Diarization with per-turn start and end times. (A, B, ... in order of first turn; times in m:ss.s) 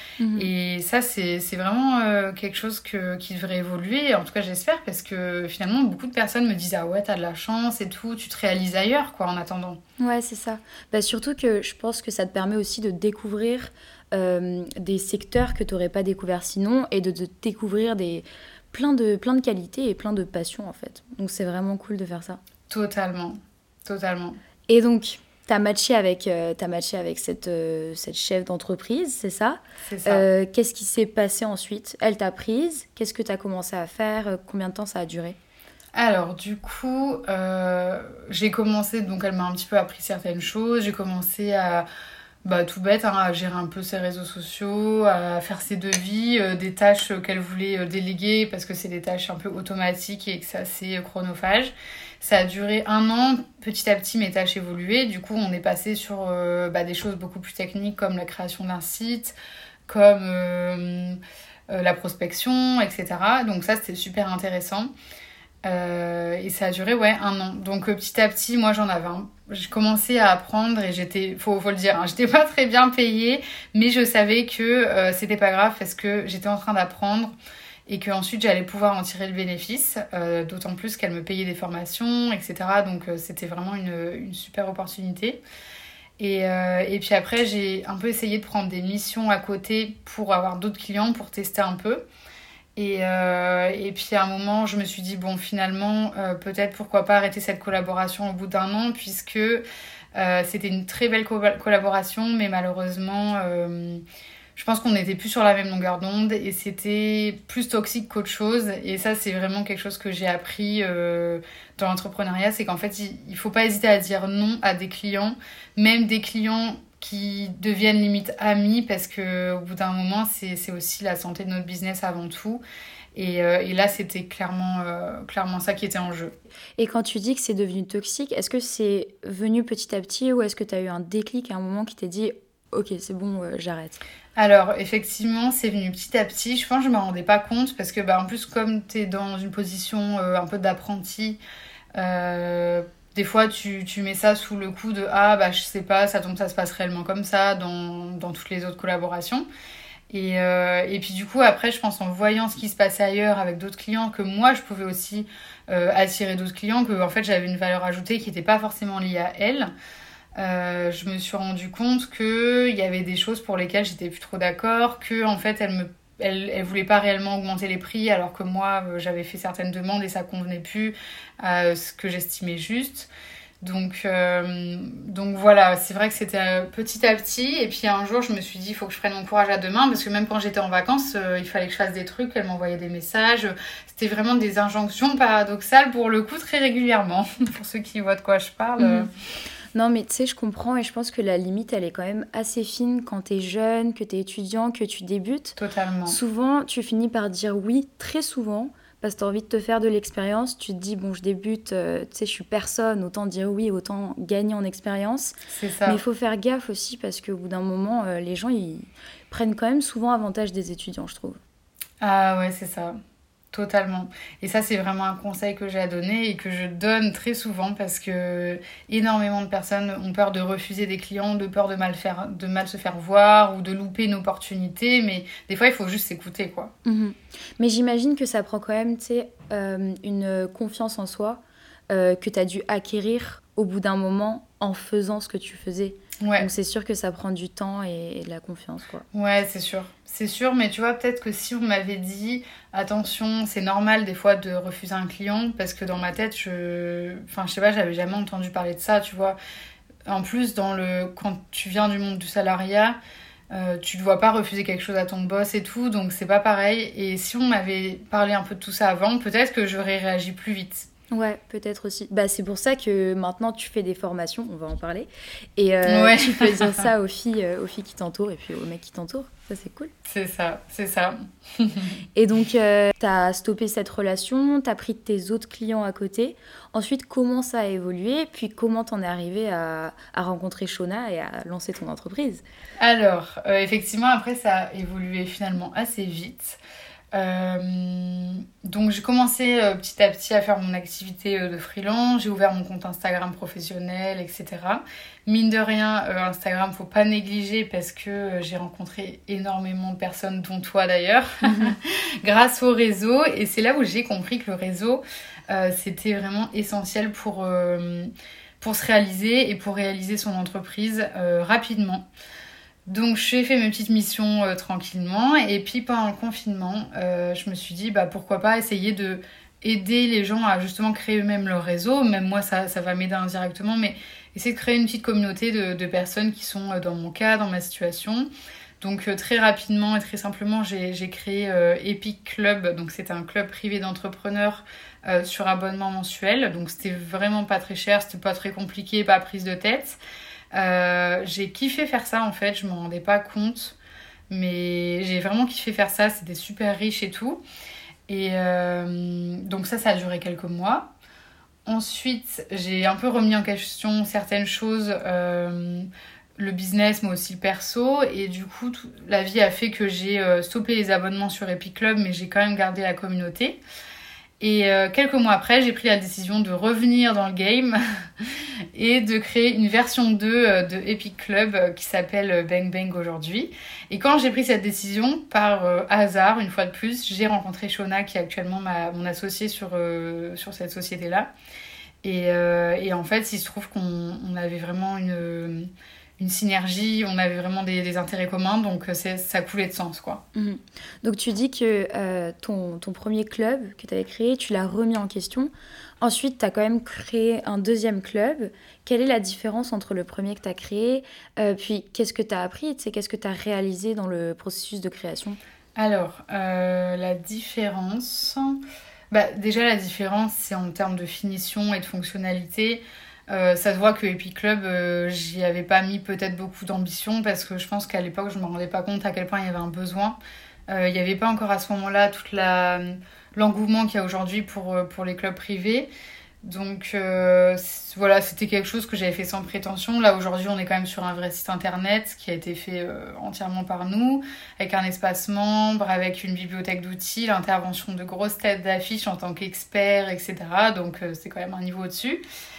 0:00.2-0:00.5 A
0:00.3-0:09.8 B
0:10.0-0:22.4 A
0:22.7-0:24.4 B
0:24.7-0:35.4 A
0:29.8-0:30.2 B
0:35.9-0:41.8 B
0:42.4-1:04.9 B
1:05.6-1:17.3 B
1:17.9-1:25.4 B
1:26.2-1:32.0 B
1:32.8-1:44.0 B
1:44.5-2:02.6 B
2:03.1-2:06.3 B
2:06.8-2:14.0 A
2:14.4-2:21.4 B
2:22.0-2:29.4 B
2:30.1-2:39.7 B
2:40.4-2:53.1 B
2:53.6-3:09.1 B
3:08.8-3:09.1 A
3:09.7-3:25.3 A
3:15.6-3:16.2 B
3:25.5-3:26.0 B
3:25.8-3:31.4 A
3:32.0-3:33.0 B
3:33.5-3:46.7 B
3:46.8-3:59.0 A
3:56.2-3:56.5 B
3:59.1-4:09.4 B
4:10.1-4:13.0 B
4:13.5-4:20.9 B
4:21.1-4:29.9 A
4:25.9-4:26.9 B
4:30.0-4:31.9 B
4:32.2-4:42.4 A
4:42.8-4:46.6 B
4:47.1-5:12.1 B
5:12.9-5:28.3 B
5:28.8-5:40.0 B
5:40.5-5:43.8 B
5:44.3-5:47.4 B
5:48.1-5:50.9 B
5:51.6-6:03.6 B
6:04.4-6:21.3 B
6:22.0-6:30.2 B
6:30.3-6:45.4 A
6:45.8-6:48.6 B
6:49.1-7:00.2 B
7:00.7-7:05.9 B
7:06.4-7:22.2 B